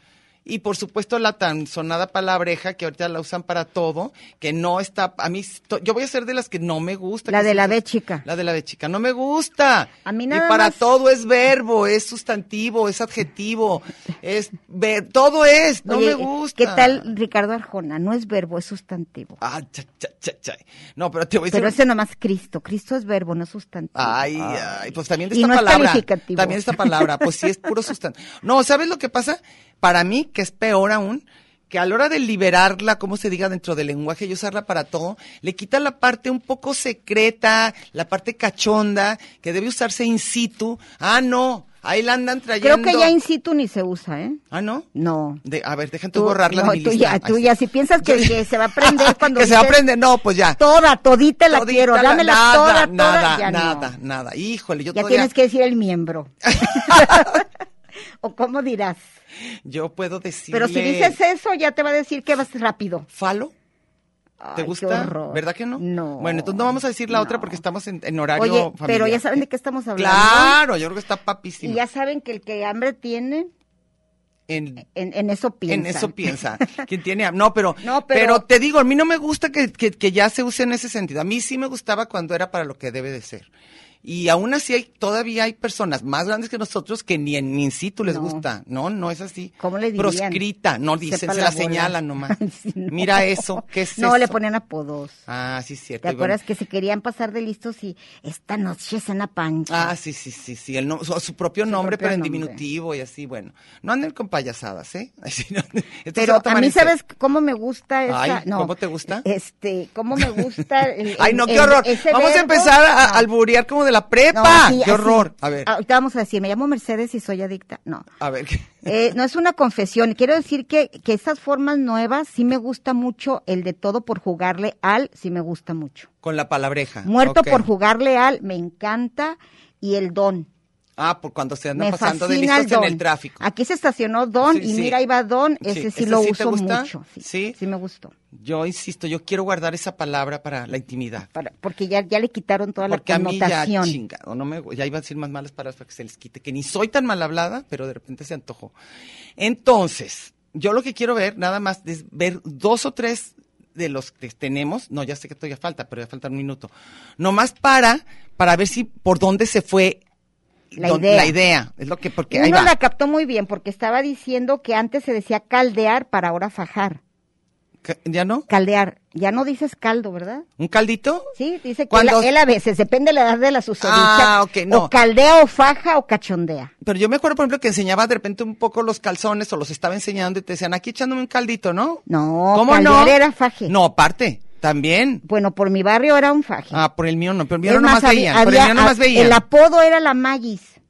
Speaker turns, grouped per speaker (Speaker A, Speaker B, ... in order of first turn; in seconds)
Speaker A: 0.4-17.1, 19.4-21.8, 23.9-43.1, 44.5-44.9, 45.4-50.6, 51.5-55.3, 56.5-57.4, 59.6-61.2, 63.1-63.5, 64.5-69.4, 70.0-71.8, 74.5-74.8, 75.7-83.5, 84.0-92.4, 92.9-94.4, 95.3-96.4, 99.7-106.9, 108.1-109.2, 110.2-110.5, 111.0-115.7, 118.2-118.8, 126.2-127.7, 131.0-133.4, 134.4-135.0, 135.6-137.6, 138.3-141.3, 142.8-148.7, 149.4-160.0, 160.7-162.7, 167.8-168.4, 170.6-171.3, 171.9-172.3, 173.8-174.9, 176.8-185.2, 186.7-189.4
Speaker B: 7.3-8.2, 10.0-10.8, 15.8-19.4, 21.5-27.2, 42.6-44.4, 44.9-45.4, 46.1-49.8, 50.6-53.9, 54.9-57.4, 58.2-59.0, 60.5-63.1, 64.4-67.6, 68.3-70.6, 71.6-73.5, 74.8-76.3, 77.8-78.4, 88.1-88.4, 89.6-90.4, 91.0-95.2, 96.0-99.9, 101.7-102.6, 106.2-113.2, 114.3-118.1, 118.8-126.1, 127.0-130.5, 131.8-138.1, 141.3-144.0, 160.8-161.3, 162.3-167.0, 168.5-170.4, 171.3-176.7, 182.1-183.7, 185.2-186.8, 187.6-190.8